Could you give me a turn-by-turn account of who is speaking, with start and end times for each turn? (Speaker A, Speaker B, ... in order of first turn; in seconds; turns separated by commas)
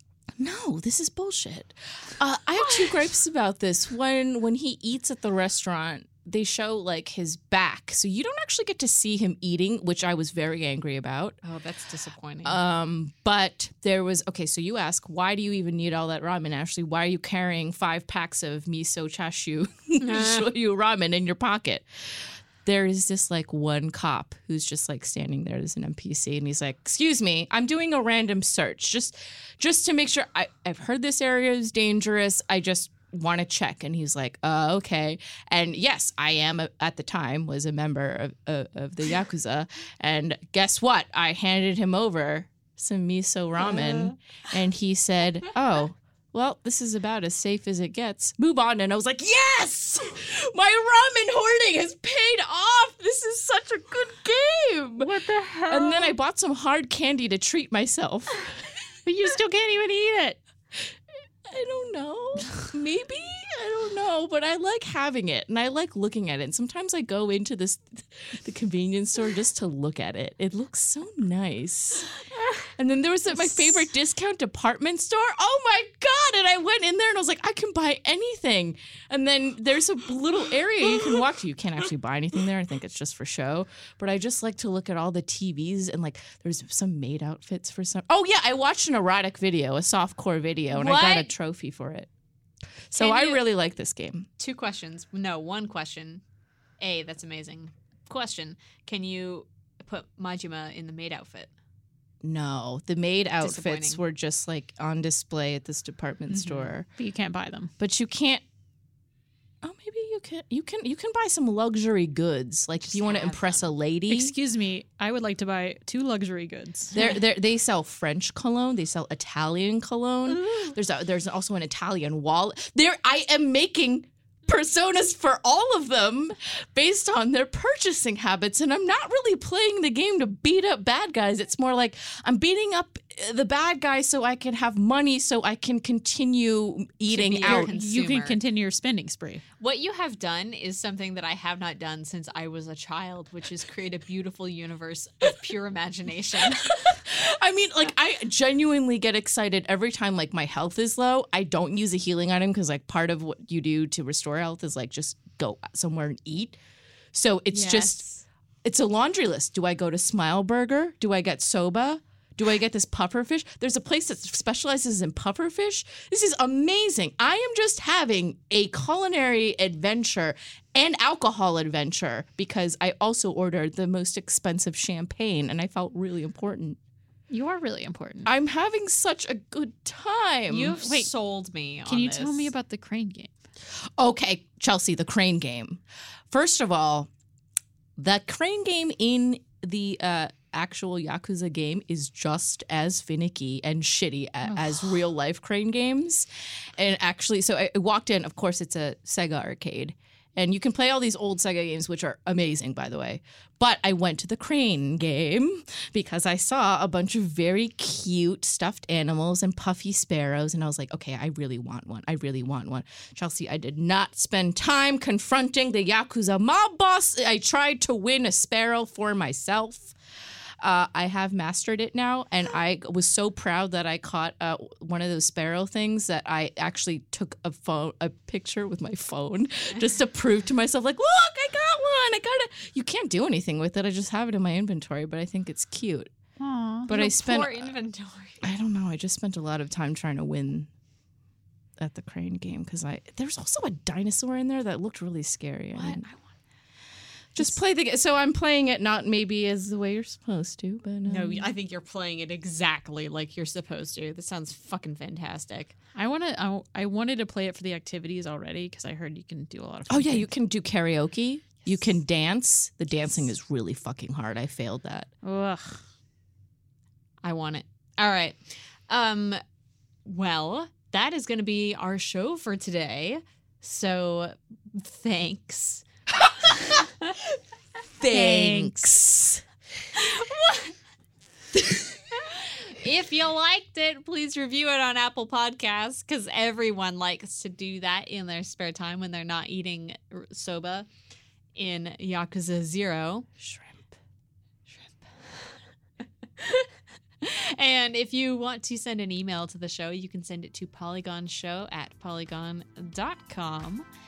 Speaker A: 0.4-11.4, Speaker B: 11.4-12.6, Speaker A: 12.4-55.1, Speaker B: 20.0-20.5, Speaker C: 55.0-56.1, Speaker A: 55.7-58.5, Speaker C: 59.0-60.4, Speaker A: 61.4-72.1, Speaker A: 72.7-92.1, Speaker B: 90.7-91.3, Speaker A: 92.9-94.3, Speaker B: 92.9-93.4, Speaker B: 94.4-96.2, Speaker B: 96.8-101.5, Speaker A: 102.2-106.9, Speaker B: 103.4-104.0, Speaker B: 106.3-106.7, Speaker C: 107.0-107.7, Speaker A: 107.8-108.4, Speaker A: 109.6-114.3, Speaker B: 112.8-113.7, Speaker C: 114.1-116.9, Speaker A: 116.9-137.7, Speaker B: 120.3-120.7, Speaker B: 137.1-138.4, Speaker C: 137.4-139.4, Speaker B: 139.6-147.0, Speaker A: 146.5-156.6, Speaker A: 157.1-158.1, Speaker B: 157.5-158.2, Speaker A: 158.6-176.8, Speaker C: 177.3-178.3, Speaker A: 178.2-180.8, Speaker B: 180.5-182.5, Speaker C: 180.5-181.1, Speaker C: 181.8-183.3, Speaker A: 184.0-187.1, Speaker A: 188.0-219.9, Speaker C: 194.5-194.9, Speaker A: 220.6-236.1, Speaker C: 236.4-236.9, Speaker A: 236.9-237.7, Speaker B: 236.9-238.5, Speaker A: 238.4-240.7, Speaker A: 241.8-246.1, Speaker B: 245.7-246.2, Speaker A: 247.3-251.4, Speaker B: 251.0-255.7, Speaker C: 255.9-260.3, Speaker A: 259.9-265.1, Speaker C: 265.2-265.8, Speaker B: 267.2-269.4, Speaker B: 270.1-275.8, Speaker B: 276.6-277.1, Speaker A: 278.0-279.4, Speaker C: 278.1-278.9, Speaker B: 279.9-280.7, Speaker B: 282.1-290.9, Speaker B: 291.5-293.3, Speaker A: 293.4-293.9, Speaker B: 296.4-303.9